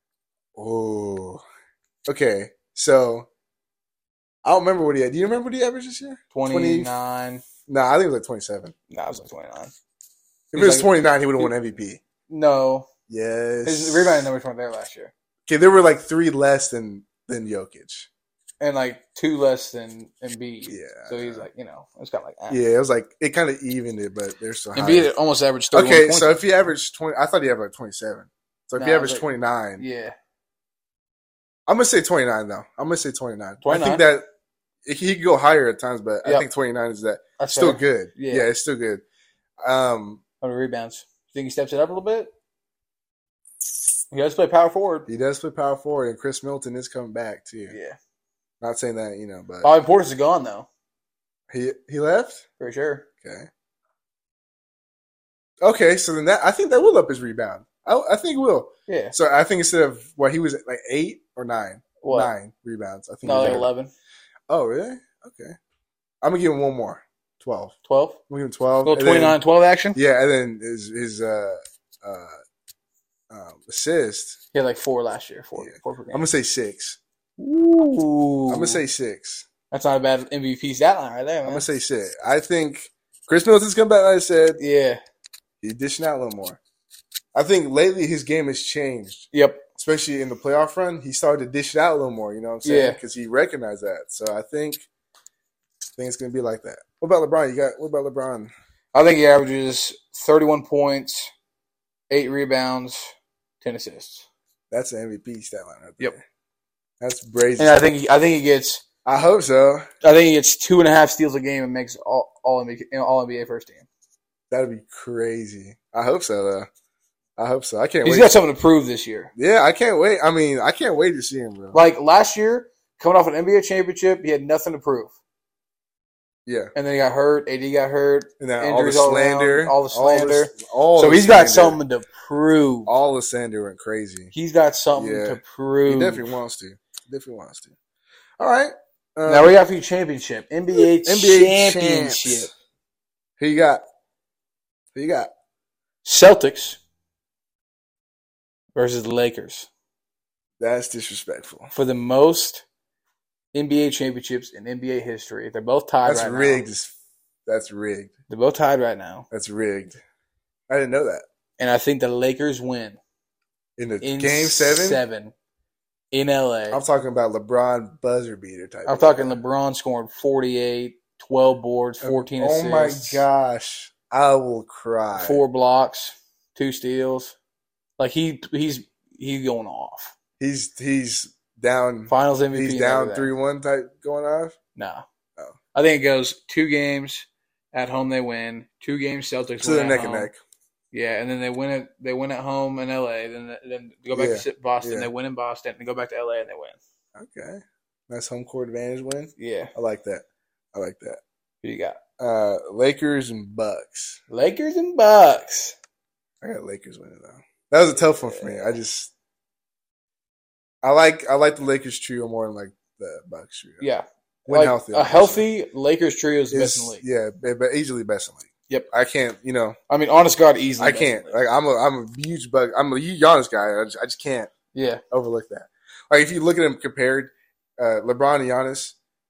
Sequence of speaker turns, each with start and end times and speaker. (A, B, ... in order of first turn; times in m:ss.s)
0:00.6-0:01.4 A
0:02.0-0:03.3 A
0:04.4-0:06.9 A
0:06.3-0:07.4 B
0:07.7-0:08.7 A
0:08.9-0:09.7 B
0:10.5-0:12.0 A
0:10.5-0:11.5 B
0:12.3-0:12.9 B
0:13.1-0:14.3 A
0:13.6-0:15.1 B
0:15.5-0:18.1 A
0:18.6-0:22.6 B
0:20.7-0:21.5 A
0:22.5-0:25.1 A
0:24.7-0:26.3 B
0:25.7-0:29.8 A
0:28.8-0:29.2 B
0:29.8-0:30.1 B
0:31.7-0:34.2 A
0:33.6-0:34.0 B
0:34.8-0:39.0 A
0:37.4-0:38.5 B
0:39.6-0:40.2 A
0:40.4-0:42.3 B
0:44.1-0:45.1 B
0:45.1-0:47.7 A
0:47.7-0:48.0 B
0:48.6-0:49.7 A
0:49.6-0:50.7 B
0:51.5-0:52.4 A
0:52.6-0:53.0 B
0:53.2-0:53.5 A
0:55.6-1:03.7 A
0:58.9-0:59.1 B
1:02.0-1:02.3 B
1:03.2-1:03.9 B
1:04.5-1:05.6 A
1:06.2-1:07.7 A
1:07.8-1:08.2 B
1:08.3-1:09.4 A
1:08.8-1:10.0 B
1:09.9-1:12.4 A
1:13.3-1:14.4 A
1:14.5-1:16.3 B
1:15.6-1:17.0 A
1:17.4-1:18.8 B
1:18.5-1:19.4 A
1:19.7-1:21.7 B
1:21.4-1:24.6 A
1:24.6-1:25.0 B
1:25.6-1:26.6 A
1:27.3-1:34.8 A
1:29.3-1:29.6 B
1:32.6-1:33.0 B
1:36.0-1:38.5 A
1:38.9-1:41.3 B
1:42.1-1:44.3 B
1:44.7-1:46.2 A
1:47.0-1:47.8 A
1:47.6-1:48.8 B
1:49.0-1:49.9 A
1:50.0-1:53.8 B
1:54.5-1:56.7 A
1:57.4-1:58.4 A
1:58.0-1:59.3 B
1:59.4-2:01.8 A
2:01.7-2:05.1 B
2:06.4-2:06.7 A
2:06.7-2:12.9 B
2:08.4-2:11.8 A
2:12.9-2:14.3 A
2:14.3-2:16.3 B
2:14.9-2:17.7 A
2:18.4-2:19.5 A
2:19.2-2:22.5 B
2:20.7-2:22.5 A
2:23.4-2:23.8 A
2:24.9-2:25.3 A
2:26.0-2:26.8 B
2:28.7-2:29.7 B
2:30.6-2:31.7 A
2:31.7-2:32.6 B
2:33.5-2:36.6 B
2:36.0-2:36.9 A
2:37.4-2:38.1 A
2:38.3-2:39.3 B
2:39.3-2:40.0 A
2:40.7-2:41.2 A
2:41.6-2:43.0 B
2:43.8-2:45.0 A
2:44.0-2:45.3 B
2:46.1-2:46.8 B
2:46.7-2:49.4 A
2:48.8-2:53.2 B
2:52.0-2:55.4 A
2:55.1-2:57.3 B
2:58.0-3:00.1 B
3:00.4-3:04.6 A
3:02.1-3:03.3 B
3:04.8-3:05.0 B
3:05.7-3:10.3 B
3:09.6-3:10.4 A
3:10.9-3:16.8 B
3:14.1-3:15.1 A
3:17.1-3:21.2 A
3:19.4-3:19.7 B
3:21.6-3:22.0 B
3:22.2-3:24.2 A
3:24.3-3:25.8 B
3:26.4-3:29.1 A
3:28.0-3:28.7 B
3:30.8-3:33.8 A
3:33.8-3:37.0 B
3:34.5-3:35.4 A
3:36.5-3:39.8 A
3:39.9-3:41.4 B
3:40.8-3:44.5 A
3:44.7-3:45.0 B
3:45.1-3:49.0 A